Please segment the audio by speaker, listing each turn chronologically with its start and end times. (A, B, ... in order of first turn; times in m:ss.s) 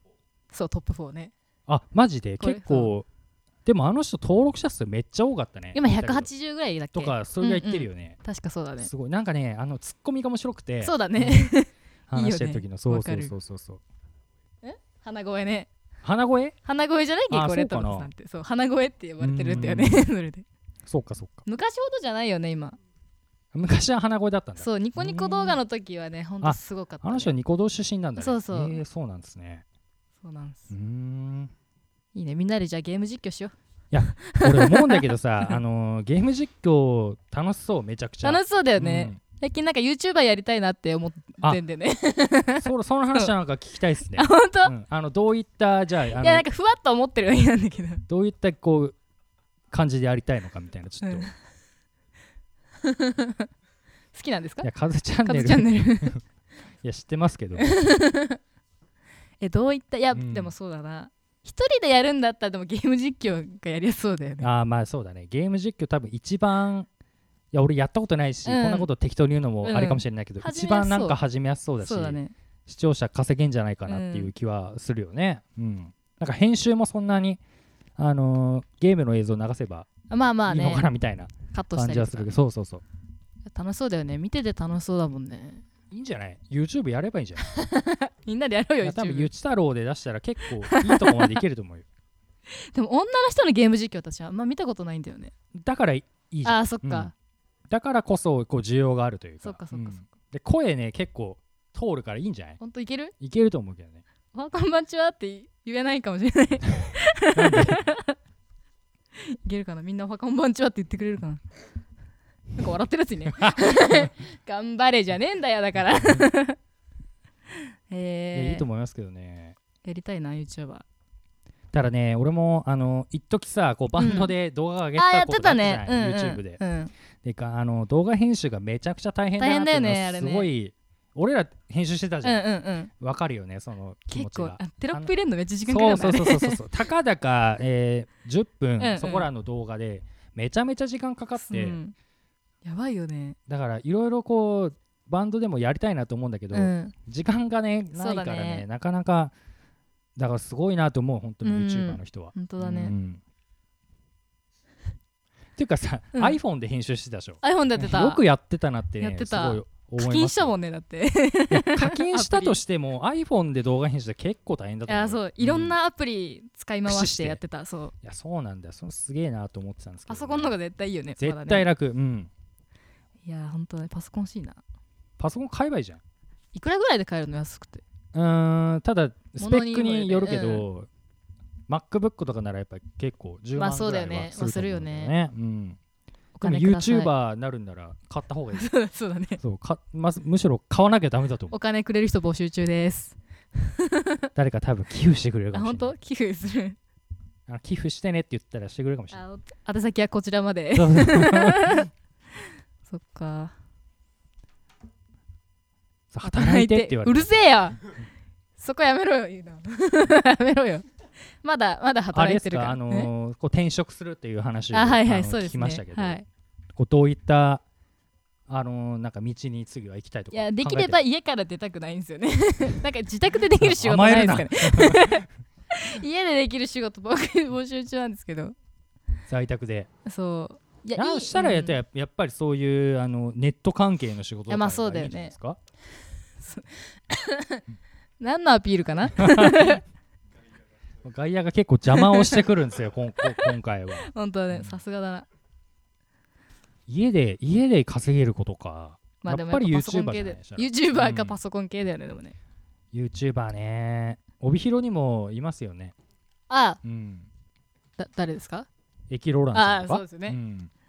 0:00.5-0:01.3 A
0:01.7-0:03.1 B
0:02.4-0:02.9 A
0:03.6-0:06.3 B
0:05.7-0:08.9 A
0:06.9-0:08.2 B
0:08.8-0:11.5 B
0:10.8-0:13.3 A
0:12.1-0:13.8 B
0:14.6-0:15.7 A
0:16.0-0:16.6 B
0:16.6-0:20.4 A
0:17.3-0:18.1 B
0:19.2-0:20.1 B
0:20.8-0:21.4 B
0:21.4-0:22.8 A
0:23.5-0:25.6 B
0:24.6-0:27.3 A
0:26.4-0:29.6 B
0:28.2-0:28.8 A
0:30.2-0:30.7 A
0:30.7-0:31.5 B
0:32.1-0:33.5 A
0:33.9-0:39.2 B
0:34.1-0:35.6 A
0:38.2-0:43.3 A
0:42.6-0:46.5 B
0:44.1-0:44.7 A
0:46.2-0:48.0 A
0:48.1-0:49.0 B
0:49.7-0:51.3 B
0:51.0-0:51.3 A
0:52.8-0:53.5 A
0:54.1-0:54.7 A
0:54.6-0:56.2 B
0:55.2-0:56.2 A
0:56.8-0:57.7 B
0:57.6-0:58.4 A
0:59.4-1:04.5 A
1:00.1-1:00.5 B
1:04.4-1:06.9 B
1:07.5-1:17.4 B
1:08.4-1:08.9 A
1:09.6-1:11.2 A
1:11.8-1:12.3 A
1:13.9-1:14.3 A
1:18.0-1:19.9 B
1:20.1-1:20.9 A
1:20.5-1:22.8 B
1:21.5-1:22.3 A
1:23.5-1:25.6 A
1:25.9-1:27.4 B
1:27.4-1:29.3 A
1:28.8-1:31.8 B
1:30.6-1:31.4 A
1:32.5-1:35.3 A
1:35.5-1:37.1 B
1:36.4-1:37.1 A
1:37.7-1:42.6 B
1:39.4-1:40.1 A
1:42.6-1:43.1 A
1:43.2-1:44.0 B
1:44.3-1:48.2 A
1:47.3-1:47.8 B
1:49.2-1:51.4 A
1:52.6-1:56.6 A
1:53.4-1:54.0 B
1:57.9-1:58.6 A
1:58.3-1:59.6 B
1:59.8-2:00.8 A
2:01.7-2:06.6 B
2:04.0-2:04.3 A
2:05.0-2:06.9 A
2:07.2-2:12.4 B
2:09.4-2:10.5 A
2:12.2-2:12.9 A
2:13.0-2:15.1 B
2:14.1-2:16.6 A
2:15.6-2:21.8 B
2:18.8-2:19.3 A
2:21.4-2:21.9 A
2:22.6-2:23.4 A
2:23.5-2:29.3 B
2:26.5-2:26.9 A
2:28.0-2:28.6 A
2:30.2-2:33.2 B
2:31.4-2:32.9 A
2:35.6-2:40.5 B
2:37.4-2:38.2 A
2:39.0-2:42.6 A
2:41.5-2:45.7 B
2:44.9-2:47.9 A
2:46.8-2:47.4 B
2:48.0-2:50.5 B
2:50.1-2:51.7 A
2:51.2-2:52.3 B
2:53.2-2:54.6 A
2:55.2-2:56.0 B
2:56.5-2:57.8 A
2:58.1-3:00.9 B
2:59.4-3:00.6 A
3:01.7-3:05.8 B
3:03.6-3:05.1 A
3:06.4-3:07.1 A
3:06.4-3:08.7 B
3:08.5-3:09.4 A
3:09.4-3:11.5 B
3:11.5-3:14.3 A
3:14.3-3:15.9 B
3:15.5-3:16.8 A
3:17.5-3:19.2 B
3:19.1-3:21.9 A
3:20.7-3:21.8 B
3:22.9-3:23.5 A
3:26.1-3:27.3 B
3:26.2-3:27.8 A
3:28.6-3:30.8 A
3:31.4-3:33.1 A
3:32.1-3:36.2 B
3:34.7-3:36.2 A
3:36.7-3:37.6 B
3:38.5-3:41.0 B
3:40.3-3:48.5 A
3:43.6-3:45.2 B
3:49.3-3:49.9 B
3:50.0-3:51.8 A
3:51.0-3:55.6 B
3:54.5-3:55.3 A
3:56.4-3:57.6 A
3:58.2-3:59.8 A
3:59.2-3:59.8 B
4:01.0-4:04.8 B
4:01.9-4:02.4 A
4:04.0-4:05.2 A
4:06.9-4:11.4 B
4:09.2-4:12.4 A
4:12.9-4:15.9 B
4:16.5-4:16.8 A
4:16.8-4:17.3 B
4:18.0-4:18.7 A
4:19.1-4:20.7 B
4:19.5-4:20.4 A